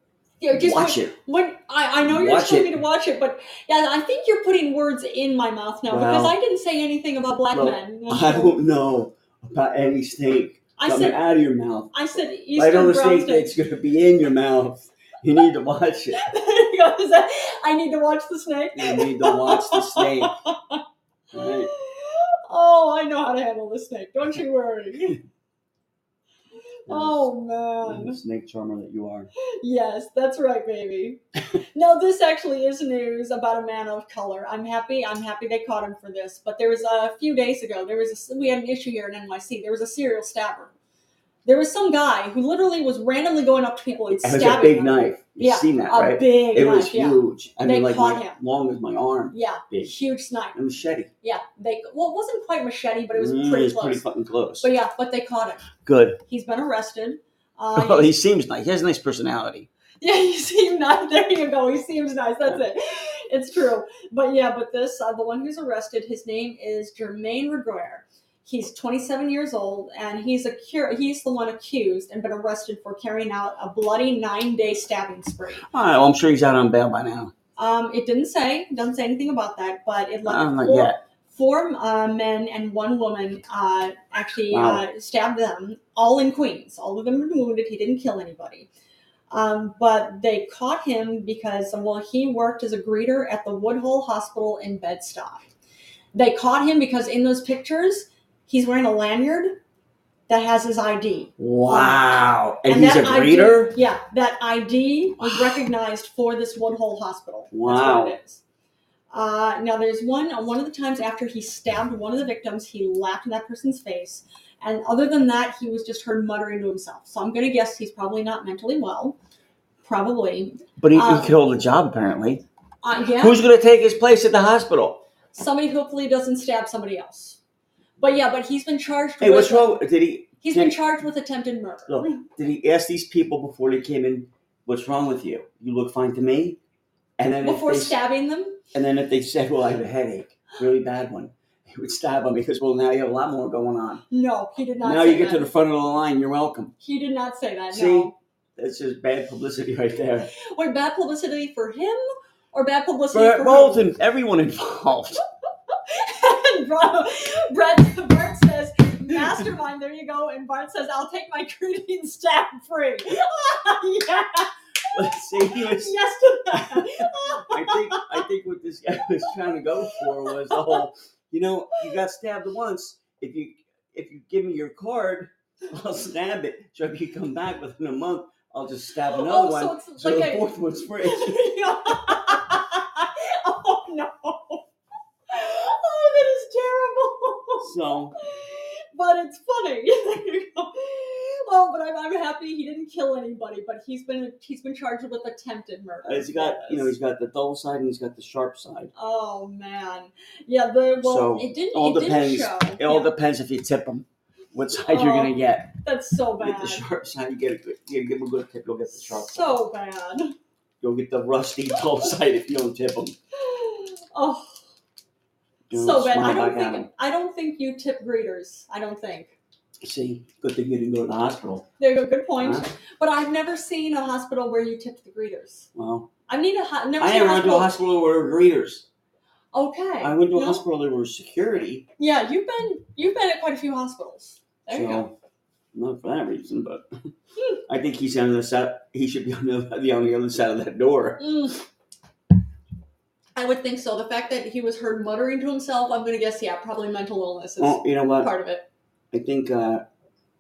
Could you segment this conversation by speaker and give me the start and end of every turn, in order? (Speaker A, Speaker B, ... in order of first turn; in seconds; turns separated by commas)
Speaker A: 0.4-8.6, Speaker B: 0.5-1.2, Speaker B: 2.0-2.8, Speaker B: 5.9-6.3, Speaker B: 7.5-11.9, Speaker A: 10.8-11.2, Speaker A: 11.9-13.5, Speaker B: 12.6-16.2, Speaker A: 16.2-20.8, Speaker B: 18.8-20.4, Speaker B: 21.3-21.7, Speaker A: 21.4-25.2, Speaker A: 26.9-28.2, Speaker B: 26.9-27.3, Speaker B: 27.8-29.3, Speaker A: 29.6-31.2, Speaker A: 31.8-40.7, Speaker A: 41.5-48.4, Speaker B: 44.1-49.9, Speaker A: 49.3-50.6, Speaker B: 50.5-51.1, Speaker A: 51.2-54.0, Speaker B: 53.1-54.7, Speaker A: 54.6-55.7, Speaker B: 55.8-56.2, Speaker A: 56.3-58.1, Speaker B: 57.7-59.7, Speaker A: 60.0-75.7, Speaker B: 75.7-77.3, Speaker A: 77.6-88.7, Speaker B: 80.2-81.0, Speaker B: 84.5-84.8, Speaker A: 89.3-95.4, Speaker A: 96.1-99.6, Speaker A: 100.3-102.0, Speaker B: 101.4-103.8, Speaker A: 102.7-108.4, Speaker B: 107.5-108.2, Speaker A: 109.1-119.2, Speaker A: 119.8-121.3, Speaker B: 120.8-122.5, Speaker A: 122.8-123.4, Speaker B: 123.2-125.0, Speaker A: 125.3-127.4, Speaker A: 128.0-129.8, Speaker B: 129.2-130.8, Speaker A: 130.4-132.2, Speaker B: 131.9-136.6, Speaker B: 137.2-138.0, Speaker A: 137.4-138.6, Speaker B: 138.7-144.0, Speaker A: 144.1-145.5, Speaker B: 144.8-146.8, Speaker A: 146.8-148.2, Speaker B: 147.7-150.3, Speaker A: 150.4-153.9, Speaker B: 153.1-155.2, Speaker A: 155.7-168.2, Speaker B: 164.9-166.0, Speaker B: 166.5-181.4, Speaker A: 170.3-170.8, Speaker A: 179.1-180.5, Speaker A: 181.0-184.7, Speaker A: 185.3-196.9, Speaker B: 187.6-188.2, Speaker B: 196.1-198.9, Speaker A: 198.9-203.1, Speaker B: 201.0-205.7, Speaker A: 204.9-206.8, Speaker B: 206.4-209.6, Speaker A: 209.0-210.3, Speaker B: 210.8-213.2, Speaker A: 213.4-214.6, Speaker B: 215.7-216.9, Speaker A: 215.7-219.3, Speaker B: 219.8-221.7, Speaker A: 221.8-225.7, Speaker B: 222.4-222.7, Speaker B: 225.8-226.1, Speaker A: 226.3-227.7, Speaker B: 227.0-228.9, Speaker A: 229.5-230.6, Speaker B: 230.0-231.9, Speaker A: 232.0-235.1, Speaker B: 234.7-235.2, Speaker B: 235.7-236.9, Speaker B: 237.7-241.3, Speaker A: 241.2-241.6, Speaker A: 243.4-248.7, Speaker B: 247.6-248.3, Speaker B: 249.1-249.8